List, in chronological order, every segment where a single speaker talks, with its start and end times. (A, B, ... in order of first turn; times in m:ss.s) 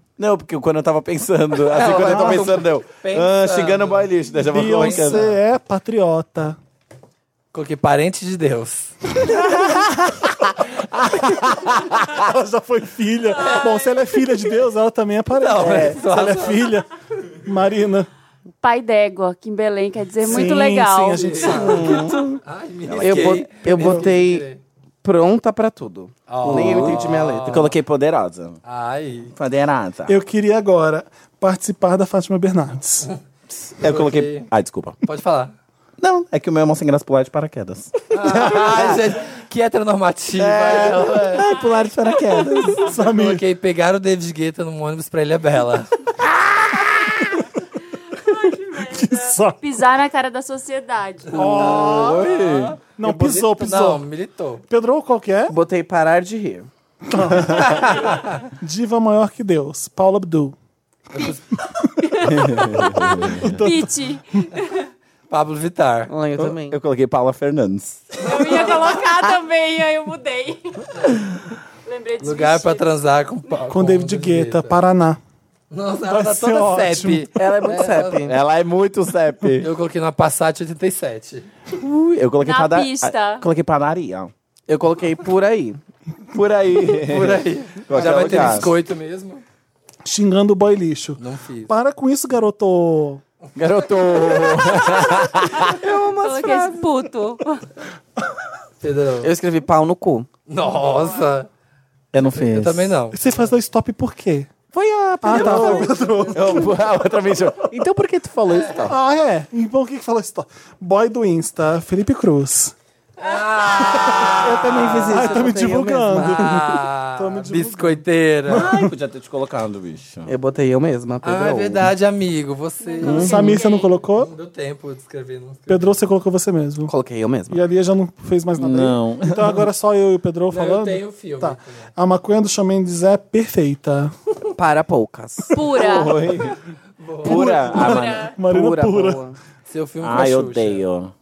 0:00.2-0:05.3 A
0:01.7-0:05.4 B
0:02.1-0:02.4 C
0:04.5-0:06.6 C
0:07.5-0:09.0 B
0:09.3-0:09.9 C
0:11.0-0:12.2 A
0:11.4-0:16.9 C
0:13.4-0:13.7 B
0:13.4-0:14.1 D
0:15.4-0:16.8 B
0:17.4-0:18.1 C
0:18.6-0:21.4 D
0:20.2-0:22.1 C
0:21.2-0:24.6 B
0:21.5-0:22.2 A
0:21.8-0:22.4 E
0:22.8-0:23.5 A
0:23.0-0:24.5 E
0:23.8-0:24.0 C
0:25.0-0:27.7 E
0:26.3-0:27.7 B
0:26.4-0:28.6 A
0:28.6-0:29.3 B
0:29.3-0:30.2 A
0:30.1-0:33.1 C
0:33.5-0:35.0 A
0:33.8-0:34.5 B
0:35.0-0:35.5 B
0:36.0-0:39.2 A
0:38.1-0:41.5 B
0:40.4-0:42.9 A
0:42.8-0:43.4 C
0:42.8-0:45.9 B
0:48.1-0:51.7 D
0:48.8-0:49.6 C
0:51.3-0:52.3 C
0:51.3-0:54.6 B
0:51.6-0:52.8 A
0:53.0-0:54.0 C
0:54.7-0:55.6 C
0:55.5-0:56.7 E
0:57.1-1:00.6 C
0:57.6-0:58.3 B
1:01.1-1:01.5 B
1:02.0-1:04.9 D
1:02.3-1:03.6 A
1:03.4-1:03.9 C
1:05.3-1:06.1 B
1:06.1-1:06.8 E
1:06.4-1:08.0 A
1:08.2-1:10.9 D
1:08.4-1:08.6 B
1:11.9-1:12.9 D
1:12.2-1:14.8 B
1:13.7-1:15.2 C
1:15.7-1:18.3 B
1:16.0-1:17.3 C
1:17.4-1:18.4 E
1:18.2-1:19.7 A
1:19.6-1:21.5 B
1:21.7-1:24.3 A
1:22.4-1:23.4 D
1:24.7-1:25.8 E
1:26.3-1:28.7 A
1:27.0-1:29.4 B
1:28.2-1:28.5 E
1:30.0-1:33.2 C
1:31.2-1:31.7 B
1:33.6-1:35.8 A
1:35.7-1:36.9 E
1:36.1-1:37.6 D
1:38.8-1:39.3 B
1:39.2-1:40.3 E
1:40.5-1:41.5 B
1:42.1-1:43.0 A
1:42.2-1:43.4 B
1:43.1-1:44.5 C
1:44.7-1:49.0 A
1:45.2-1:46.8 C
1:45.4-1:45.8 E
1:48.5-1:48.8 B
1:48.8-1:52.8 C
1:53.2-1:55.1 B
1:53.8-1:58.9 C
1:54.4-1:55.8 A
1:55.0-1:56.7 E
1:56.1-1:58.8 B
1:58.5-2:00.3 A
2:00.3-2:01.9 E
2:01.2-2:03.6 B
2:02.8-2:04.0 D
2:03.0-2:04.3 C
2:04.2-2:06.0 B
2:05.7-2:06.9 C
2:06.9-2:07.6 E
2:07.5-2:14.1 C
2:08.6-2:09.7 A
2:10.5-2:11.9 B
2:14.6-2:15.6 E
2:15.5-2:16.2 D
2:15.7-2:16.6 A
2:17.0-2:17.6 B
2:17.2-2:18.3 A
2:17.3-2:19.2 C
2:17.4-2:18.4 D
2:18.5-2:19.4 E
2:19.7-2:20.8 B
2:20.0-2:21.1 A